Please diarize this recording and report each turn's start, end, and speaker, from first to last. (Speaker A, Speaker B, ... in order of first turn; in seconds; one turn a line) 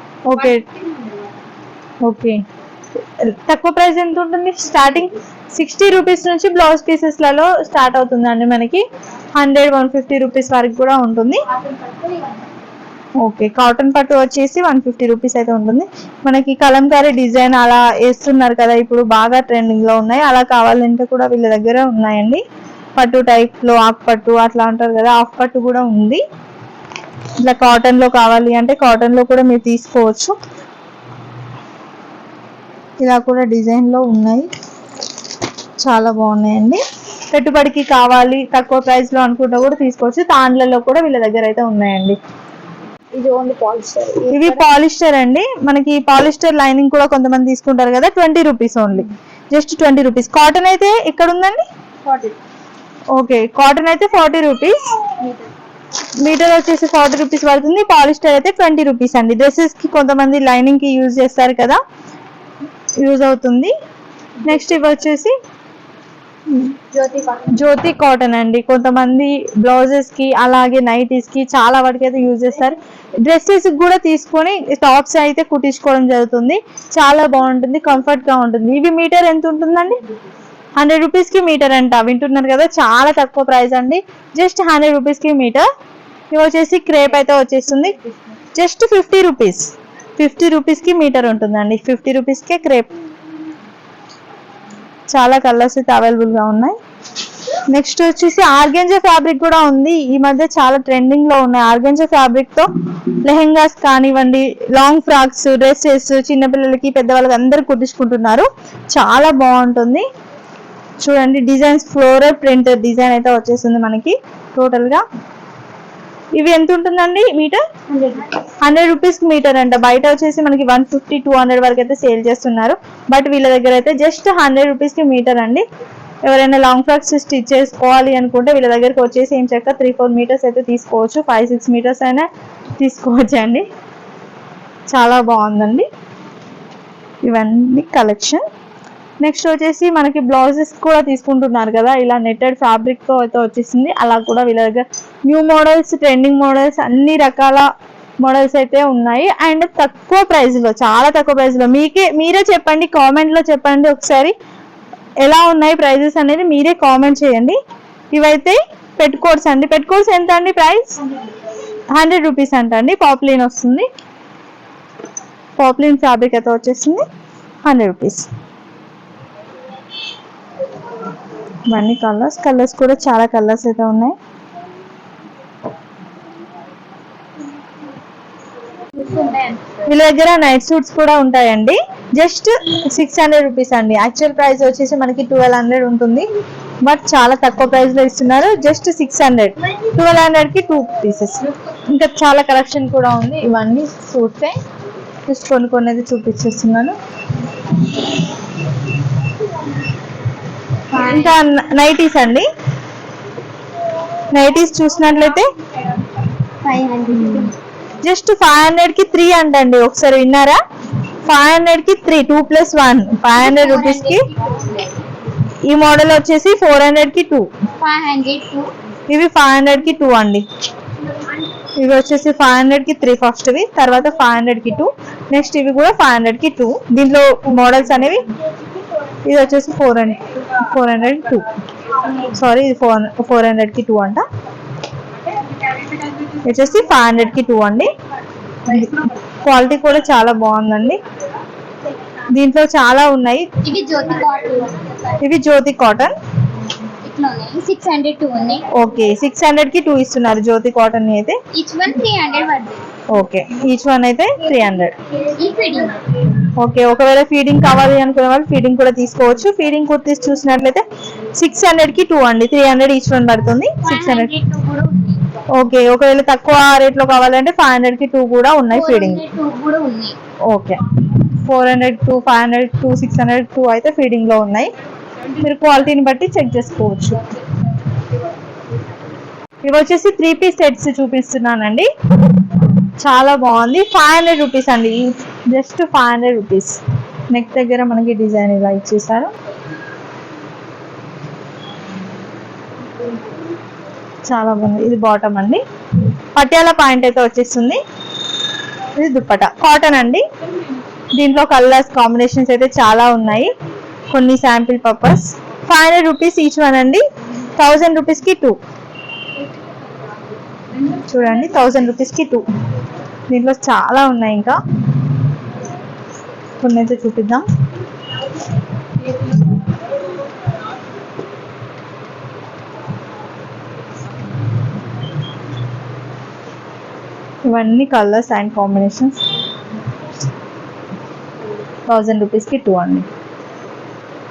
Speaker A: 0.2-0.6
Speaker B: 0.4-1.3
Speaker A: 2.0-2.4
Speaker A: 3.2-8.8
Speaker A: 9.4-11.4
Speaker B: 11.5-12.4
Speaker A: 13.2-22.4
Speaker A: 23.0-26.2
Speaker A: 27.4-30.3
Speaker A: 33.0-34.5
Speaker A: 35.8-36.8
Speaker A: 37.3-42.2
Speaker B: 43.1-44.6
Speaker A: 44.3-51.6
Speaker B: 52.0-52.4
Speaker A: 53.1-54.9
Speaker A: 56.2-61.8
Speaker A: 63.0-63.7
Speaker A: 64.4-65.3
Speaker B: 66.9-67.6
Speaker A: 67.5-80.0
Speaker A: 80.8-85.7
Speaker A: 86.3-88.0
Speaker A: 88.5-92.9
Speaker A: 95.1-96.8
Speaker A: 97.7-102.7
Speaker A: 103.2-110.0
Speaker A: 111.0-115.0
Speaker A: 116.4-117.6
Speaker B: 117.9-118.3
Speaker A: 118.6-125.7
Speaker A: 126.2-132.3
Speaker A: 132.8-133.7
Speaker A: 134.9-135.8
Speaker A: 137.2-138.4
Speaker A: 139.2-147.7
Speaker A: 148.2-154.3
Speaker A: 155.2-157.6
Speaker A: 158.1-161.0
Speaker A: 161.9-163.8
Speaker A: 165.6-167.0
Speaker A: 167.6-168.3
Speaker A: 171.7-174.2
Speaker B: 178.9-179.8
Speaker A: 179.8-186.2
Speaker A: 186.8-194.6
Speaker A: 195.2-196.9
Speaker A: 200.9-202.5
Speaker B: 200.9-201.4
Speaker A: 204.3-205.5
Speaker B: 206.4-207.5
Speaker A: 208.0-210.6
Speaker A: 211.2-214.2
Speaker B: 213.3-215.0
Speaker A: 215.7-217.4
Speaker B: 217.8-218.7
Speaker A: 219.1-220.4
Speaker A: 221.8-228.3
Speaker A: 229.2-231.4
Speaker A: 232.2-234.2
Speaker A: 236.4-237.9
Speaker A: 238.7-241.0
Speaker A: 242.3-243.5
Speaker B: 243.6-245.1
Speaker A: 245.2-246.1
Speaker B: 247.0-248.7
Speaker A: 248.7-251.4
Speaker B: 251.5-252.8
Speaker A: 253.1-254.9
Speaker B: 255.2-256.3
Speaker A: 256.5-264.3
Speaker B: 263.8-265.2
Speaker A: 265.5-269.2
Speaker B: 268.7-270.1
Speaker A: 270.5-274.7
Speaker A: 275.4-277.3
Speaker A: 279.6-281.9
Speaker A: 283.0-286.8
Speaker A: 287.3-289.3
Speaker A: 294.3-295.6
Speaker A: 296.4-297.8
Speaker A: 298.9-300.2
Speaker A: 301.1-303.5
Speaker A: 304.1-307.0
Speaker A: 307.6-308.6
Speaker A: 310.9-312.4
Speaker A: 313.3-314.6
Speaker A: 316.6-317.4
Speaker A: 327.4-329.2
Speaker A: 331.9-333.1